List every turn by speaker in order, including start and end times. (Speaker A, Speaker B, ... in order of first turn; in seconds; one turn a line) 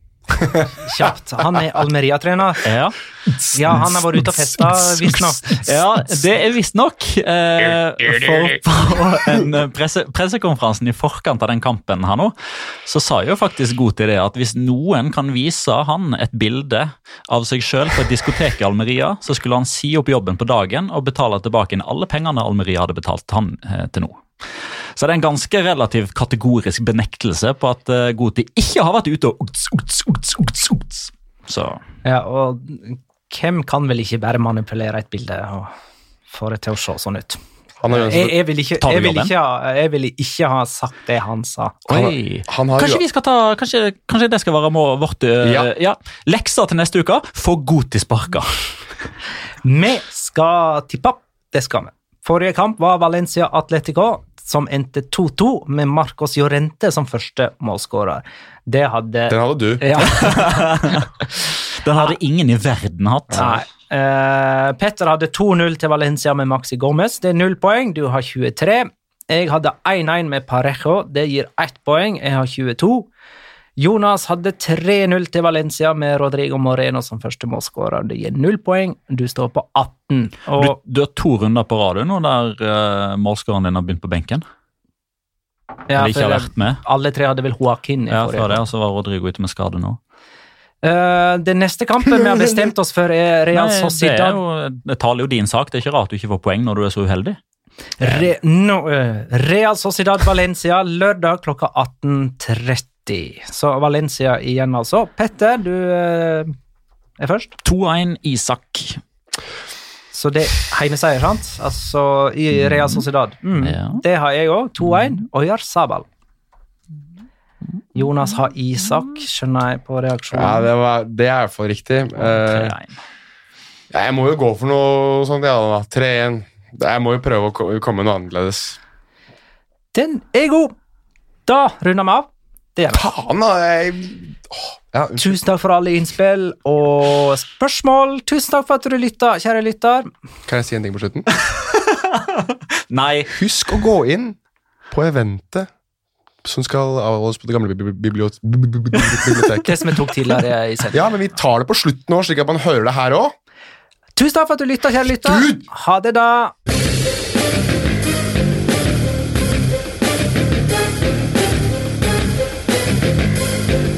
Speaker A: 0.8-2.7
Speaker B: 2.6-31.8
Speaker A: 3.5-5.8
Speaker A: 32.0-35.7
Speaker A: 36.3-41.9
Speaker C: 37.8-38.3
Speaker B: 38.8-39.3
Speaker B: 41.9-48.8
Speaker C: 41.9-43.0
Speaker C: 45.4-45.7
Speaker A: 49.6-61.0
Speaker C: 59.3-60.0
Speaker B: 60.1-61.3
Speaker B: 61.8-63.6
Speaker A: 63.3-73.1
Speaker A: 73.8-80.8
Speaker B: 80.6-84.4
Speaker A: 85.9-88.6
Speaker B: 86.0-86.8
Speaker B: 88.1-90.0
Speaker A: 90.8-94.4
Speaker B: 93.5-97.4
Speaker A: 98.0-106.5
Speaker B: 98.0-98.3
Speaker A: 107.2-107.5
Speaker B: 107.6-109.0
Speaker A: 110.1-116.1
Speaker B: 112.7-113.0
Speaker B: 113.6-114.0
Speaker A: 117.9-120.7
Speaker C: 120.3-122.7
Speaker B: 122.2-123.0
Speaker C: 123.9-128.8
Speaker A: 129.9-130.7
Speaker A: 131.5-133.0
Speaker C: 132.9-135.4
Speaker A: 135.2-140.1
Speaker C: 140.5-141.3
Speaker B: 141.4-143.3
Speaker C: 143.3-144.4
Speaker C: 144.9-145.7
Speaker C: 146.4-149.7
Speaker A: 149.6-151.0
Speaker C: 150.9-153.3
Speaker A: 154.2-156.5
Speaker C: 155.2-155.6